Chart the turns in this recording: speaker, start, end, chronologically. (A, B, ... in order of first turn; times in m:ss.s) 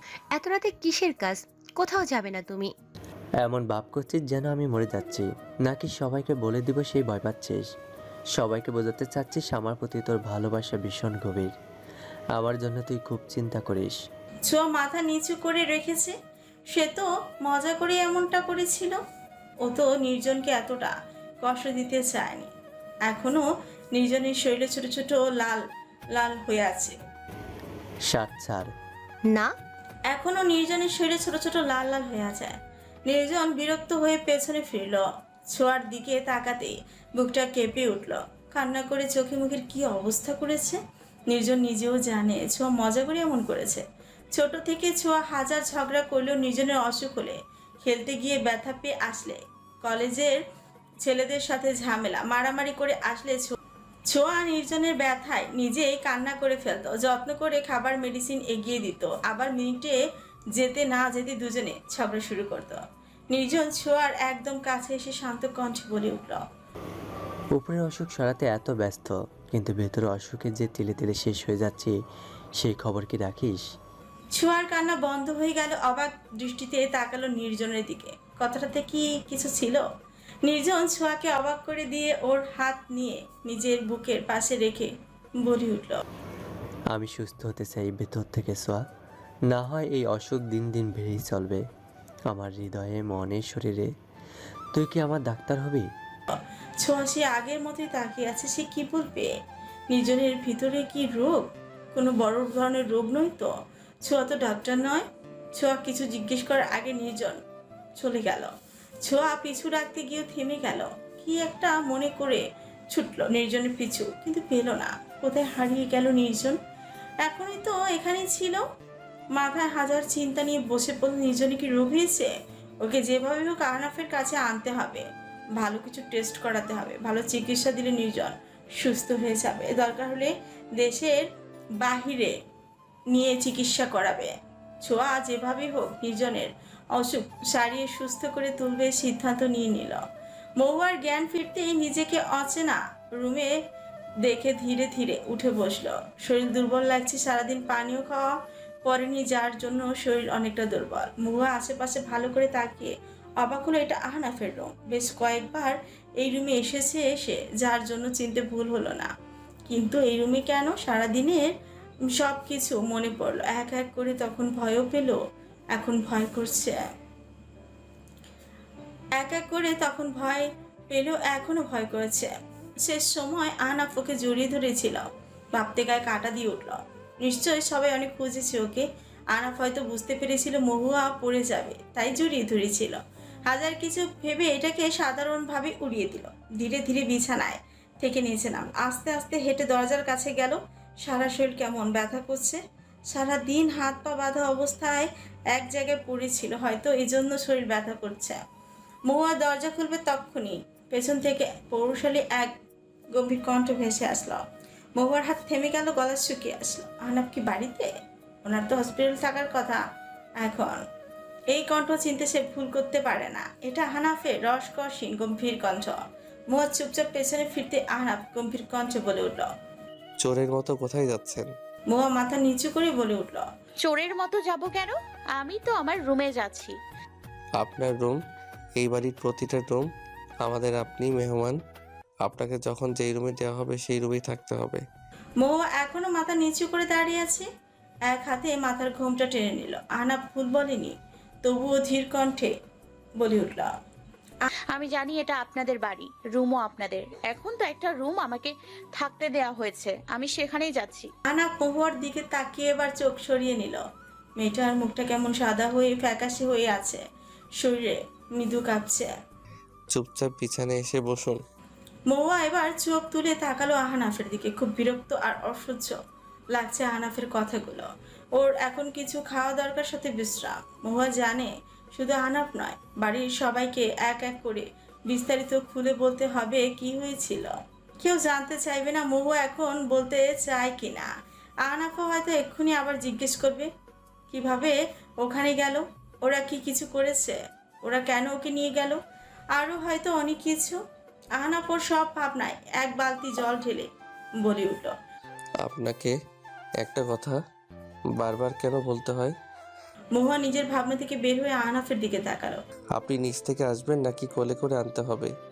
0:00.4-0:02.7 A
0:03.4-0:07.7 B
0:08.4-0:11.5 B
0:12.4-0:14.0 B
0:14.5-0:16.2 C
0:16.7-0:19.0 C
0:19.6-0:22.5 C
0:23.1-0:25.6 C
0:26.2-0:27.0 C
0:28.1-0:28.7 B
0:30.1-0:40.8 C
0:41.3-0:50.4 C
0:51.0-0:53.6 C
0:54.1-1:00.0 C
1:00.6-1:06.4 C
1:07.5-1:11.9 B
1:12.6-1:13.6 B
1:14.3-1:19.8 C
1:20.4-1:24.9 C
1:25.4-1:26.0 C
1:26.9-1:28.8 B
1:29.5-1:31.6 B
1:32.3-1:33.9 B
1:34.7-1:35.9 B
1:36.3-1:39.3 C
1:39.9-1:43.5 C
1:44.0-1:45.0 C
1:45.6-1:47.4 C
1:48.0-1:48.5 C
1:49.0-1:56.6 C
1:57.2-1:58.6 C
1:59.4-2:11.3 C
2:11.8-2:12.3 C
2:13.1-2:20.0 C
2:20.6-2:23.5 C
2:24.3-2:28.3 C
2:28.8-2:39.1 C
2:39.7-2:41.5 C
2:42.1-2:45.2 C
2:45.7-2:46.8 C
2:49.2-2:52.3 C
2:52.8-3:18.4 C
3:19.1-3:22.5 C
3:23.2-3:24.4 C
3:25.0-3:27.9 C
3:28.4-3:29.8 C
3:30.4-3:30.8 C
3:31.5-3:36.0 C
3:36.5-3:39.5 C
3:40.2-3:41.5 D
3:41.9-3:43.5 C
3:43.8-3:46.8 E
3:47.6-3:48.2 D
3:48.8-3:49.9 D
3:50.4-3:51.6 D
3:52.2-3:54.8 D
3:55.4-3:57.5 C
3:58.1-4:02.5 C
4:03.2-4:03.7 C
4:04.7-4:11.1 E
4:11.3-4:13.8 C
4:14.4-4:17.0 C
4:17.6-4:19.1 C
4:19.9-4:21.4 D
4:22.1-4:26.0 C
4:26.6-4:41.1 C
4:41.6-4:43.7 C
4:44.3-4:49.0 C
4:49.6-4:50.8 C
4:51.4-4:53.9 C
4:54.4-4:54.9 C
4:55.6-4:56.1 D
4:56.8-4:57.4 D
4:58.2-4:59.4 D
5:00.2-5:02.6 C
5:02.9-5:05.3 D